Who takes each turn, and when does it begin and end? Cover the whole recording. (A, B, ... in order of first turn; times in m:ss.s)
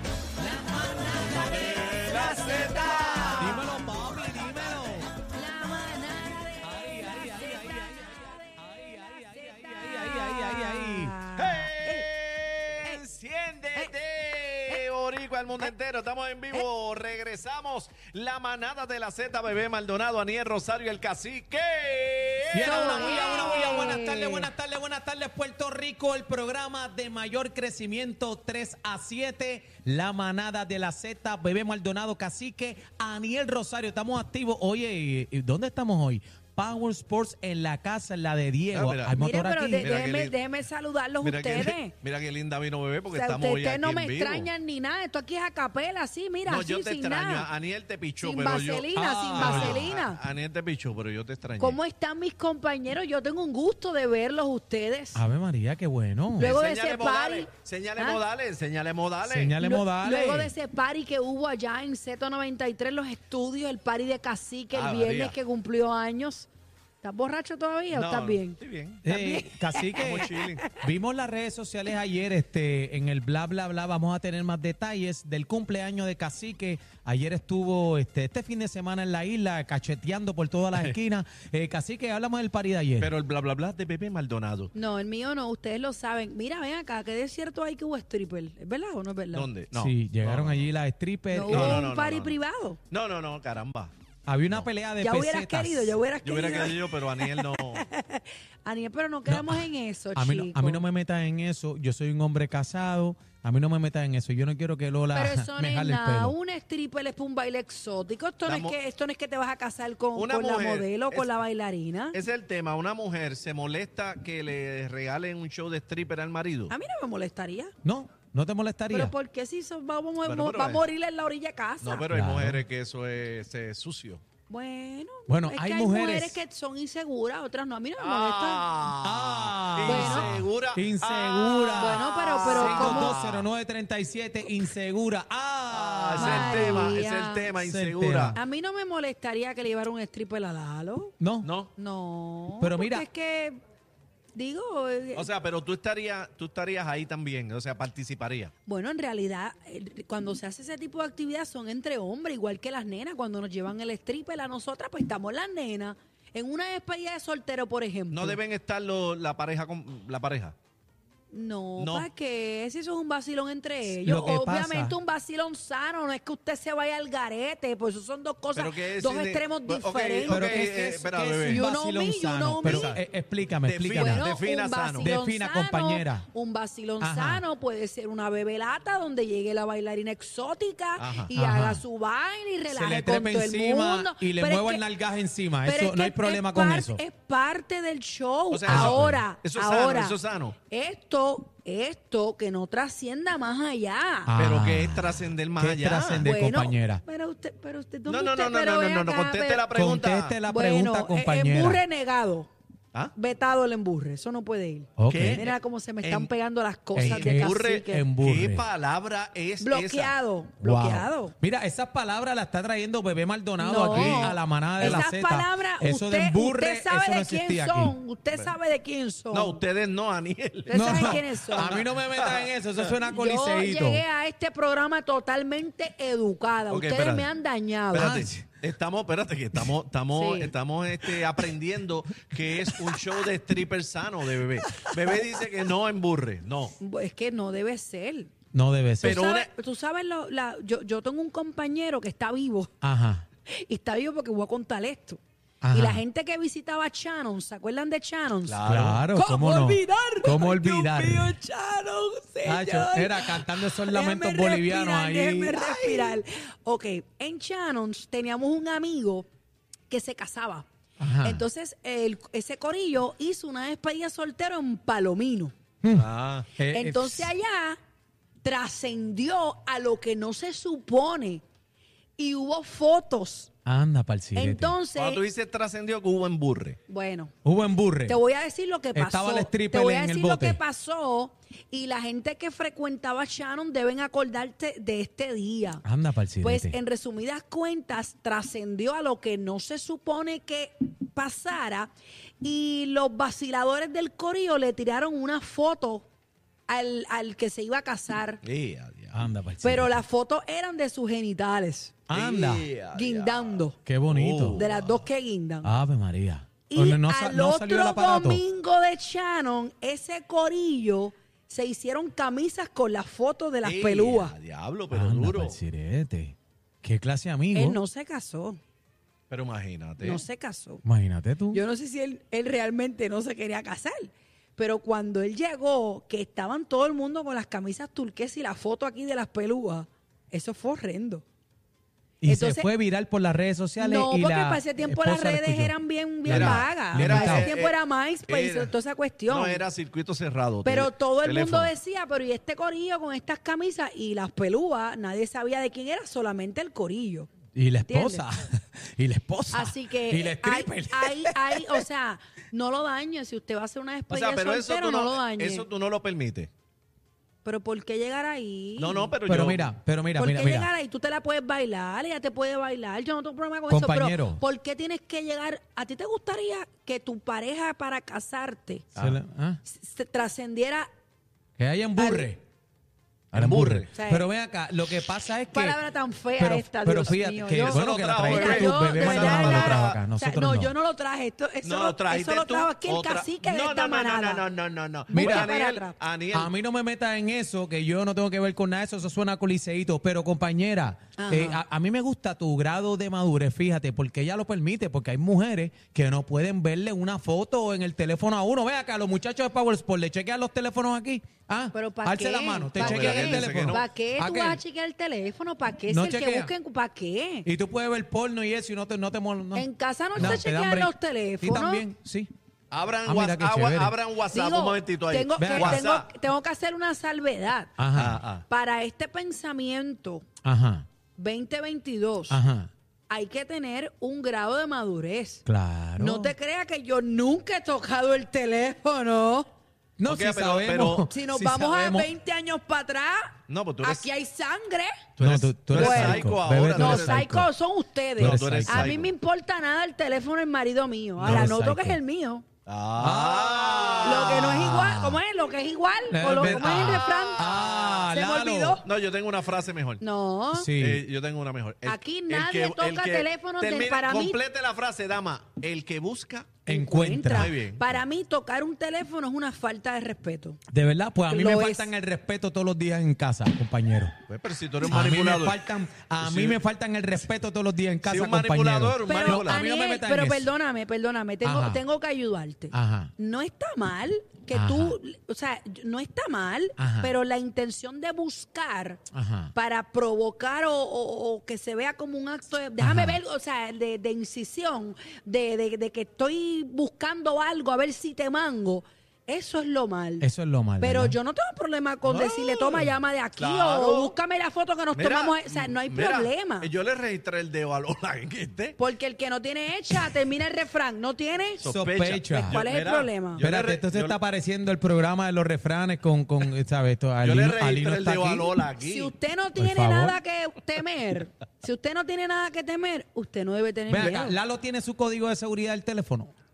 0:00.4-0:01.7 A
0:00.4-0:03.7 B
0:01.4-0:03.6 C
0:03.4-0:05.1 A
0:05.2-0:08.6 B
0:06.6-0:11.1 A
0:09.2-0:12.1 B
0:11.4-0:23.9 C
0:22.5-0:39.8 A
0:22.6-0:24.5 B
0:38.7-0:39.2 C
0:39.1-0:41.9 B
0:39.8-0:40.4 C
0:41.2-0:44.5 C
0:43.1-0:47.5 B
0:46.4-0:51.8 C
0:48.2-0:50.2 B
0:48.9-0:49.9 A
0:51.6-0:55.2 B
0:55.1-0:56.5 A
0:56.4-0:59.6 C
0:56.4-0:58.2 B
0:59.2-1:00.5 A
0:59.6-1:06.5 B
1:04.7-1:05.4 C
1:07.0-1:10.6 B
1:07.9-1:09.0 C
1:09.0-1:23.1 A
1:10.0-1:10.6 C
1:23.0-1:24.7 C
1:24.7-1:29.5 B
1:29.3-1:30.7 C
1:29.7-1:31.8 A
1:31.3-1:32.8 B
1:31.5-1:32.3 C
1:32.9-1:33.9 C
1:34.3-1:36.0 A
1:35.0-1:40.8 B
1:36.2-1:37.8 C
1:39.3-1:39.6 A
1:40.2-1:46.3 A
1:45.1-1:52.2 B
1:48.4-1:48.8 C
1:50.1-1:51.3 C
1:52.1-1:56.7 C
1:56.7-1:57.7 B
1:57.8-1:59.1 A
1:58.9-2:02.1 B
2:00.2-2:00.8 C
2:01.8-2:04.2 C
2:02.1-2:02.6 A
2:04.5-2:08.6 B
2:05.3-2:06.4 A
2:08.0-2:13.5 C
2:09.0-2:17.0 A
2:09.8-2:10.3 B
2:11.8-2:13.2 B
2:15.7-2:18.4 C
2:16.2-2:17.5 B
2:17.5-2:18.4 A
2:18.3-2:21.1 B
2:21.2-2:21.5 A
2:21.4-2:21.7 C
2:21.8-2:23.6 B
2:22.6-2:23.0 A
2:24.3-2:25.3 B
2:25.1-2:28.5 C
2:28.6-2:38.4 B
2:38.1-2:40.5 C
2:41.3-2:50.8 B
2:41.8-2:42.1 C
2:43.9-2:44.9 A
2:48.5-2:51.6 C
2:50.2-2:54.3 A
2:51.4-2:53.0 B
2:52.6-2:53.0 C
2:53.6-2:55.1 C
2:53.9-3:04.8 B
2:55.0-2:56.2 A
2:57.0-2:57.4 A
3:01.0-3:01.3 C
3:01.3-3:01.8 A
3:02.7-3:07.0 A
3:05.6-3:10.2 B
3:08.5-3:10.5 C
3:08.7-3:09.2 A
3:10.7-3:14.3 B
3:14.2-3:17.0 A
3:14.4-3:16.2 C
3:16.2-3:19.6 B
3:18.1-3:20.4 C
3:19.7-3:21.8 A
3:20.5-3:22.5 B
3:23.1-3:28.0 B
3:25.0-3:25.4 A
3:25.1-3:26.3 C
3:26.9-3:28.6 A
3:27.0-3:30.1 C
3:29.6-3:31.3 B
3:30.6-3:37.9 A
3:33.6-3:39.6 B
3:33.9-3:35.0 C
3:39.3-3:42.9 C
3:40.7-3:41.8 B
3:40.7-3:44.0 A
3:43.0-3:48.2 B
3:46.7-3:47.3 C
3:47.9-3:56.8 C
3:47.9-3:48.4 A
3:50.1-3:50.5 B
3:56.8-3:58.3 B
3:58.5-3:59.2 A
3:59.0-3:59.5 C
3:59.0-4:02.7 B
4:02.8-4:03.2 A
4:03.5-4:05.2 B
4:05.6-4:06.0 A
4:05.7-4:08.6 B
4:08.4-4:09.0 C
4:08.6-4:11.3 A
4:09.1-4:19.3 B
4:12.4-4:16.2 A
4:19.9-4:20.7 B
4:21.0-4:21.4 A
4:21.2-4:25.5 B
4:25.8-4:27.3 A
4:25.9-4:26.5 C
4:26.7-4:27.8 B
4:28.4-4:31.4 B
4:32.2-4:33.5 B
4:33.6-4:34.8 A
4:34.4-4:35.2 B
4:34.9-4:36.8 C
4:36.9-4:37.3 B
4:37.4-4:38.2 A
4:38.0-4:45.8 B
4:38.9-4:40.6 A
4:45.8-4:46.8 A
4:46.4-4:51.9 B
4:52.4-4:56.0 B
4:56.7-4:58.4 B
4:58.4-4:59.2 C
4:59.1-5:00.0 A
4:59.6-5:01.9 B
5:02.1-5:02.7 A
5:02.1-5:05.0 C
5:02.9-5:03.8 B
5:03.8-5:04.6 A
5:04.6-5:05.7 B
5:05.6-5:08.4 A
5:06.7-5:14.3 B
5:13.6-5:15.6 C
5:14.9-5:17.8 A
5:17.5-5:18.6 B
5:19.3-5:20.2 C
5:20.0-5:20.8 B
5:20.8-5:21.6 A
5:21.5-5:31.2 B
5:32.2-5:35.7 A
5:32.2-5:32.7 B
5:33.8-5:39.6 B
5:36.2-5:37.5 A
5:36.3-5:37.7 C
5:38.3-5:38.7 C
5:39.3-5:41.7 C
5:40.6-5:47.3 B
5:47.5-5:51.8 A
5:47.9-5:48.3 B
5:49.5-5:55.6 B
5:54.1-5:56.5 C
5:57.4-5:59.1 B
5:58.8-5:59.7 C
5:59.2-6:00.7 A
6:00.2-6:08.9 B
6:03.7-6:04.4 A
6:09.0-6:09.6 A
6:09.6-6:10.9 B
6:11.6-6:12.4 A
6:12.0-6:12.3 B
6:13.3-6:15.8 A
6:13.3-6:13.9 C
6:13.9-6:14.3 B
6:15.5-6:24.4 B
6:16.4-6:20.7 A
6:17.5-6:20.0 C
6:21.6-6:26.5 C
6:25.1-6:25.9 B
6:25.1-6:25.5 A
6:26.3-6:44.6 A
6:31.2-6:31.6 B
6:41.7-6:47.5 B
6:42.7-6:43.9 C
6:45.9-6:46.5 A
6:47.4-6:52.3 A
6:49.5-6:51.8 B
6:50.2-6:50.4 C
6:52.7-6:56.1 C
6:53.0-6:53.9 A
6:54.3-6:57.7 B
6:55.4-6:55.8 A
6:57.8-6:58.2 A
6:57.9-6:58.4 C
6:58.5-7:00.2 B
7:00.4-7:00.9 A
7:01.2-7:02.4 B
7:02.3-7:02.7 A
7:03.1-7:05.4 B
7:05.4-7:06.3 A
7:06.0-7:09.5 B
7:10.0-7:12.1 A
7:10.0-7:11.0 C
7:11.1-7:14.9 B
7:13.5-7:14.1 C
7:15.2-7:17.2 C
7:15.2-7:17.5 A
7:15.7-7:22.4 B
7:18.2-7:19.0 A
7:18.2-7:19.1 C
7:21.2-7:22.0 A
7:21.2-7:21.5 C
7:22.6-7:24.7 C
7:23.0-7:25.2 A
7:24.0-7:28.8 B
7:26.1-7:28.8 A
7:26.4-7:28.0 C
7:28.8-7:30.0 C
7:30.0-7:30.7 B
7:30.5-7:31.0 A
7:30.7-7:36.6 C
7:31.8-7:34.4 B
7:36.6-7:37.5 A
7:36.6-7:40.6 B
7:37.3-7:38.0 C
7:40.7-7:44.2 A
7:41.3-7:41.9 B
7:44.3-7:45.6 C
7:44.8-7:50.5 A
7:46.2-7:46.6 C
7:48.0-7:49.6 C
7:49.0-7:59.0 B
7:51.4-7:51.8 A
7:52.7-7:53.1 A
7:54.5-7:55.0 A
7:56.8-7:57.1 A
7:59.1-7:59.5 A
7:59.5-8:10.3 B
8:02.8-8:03.2 A
8:10.2-8:11.2 A
8:10.8-8:16.7 B
8:12.0-8:14.1 C
8:14.9-8:18.8 C
8:18.8-8:21.7 B
8:21.6-8:24.2 C
8:21.6-8:22.6 A
8:22.3-8:23.4 B
8:23.4-8:28.5 A
8:27.2-8:29.1 C
8:28.8-8:34.4 B
8:29.5-8:30.2 A
8:33.9-8:36.3 A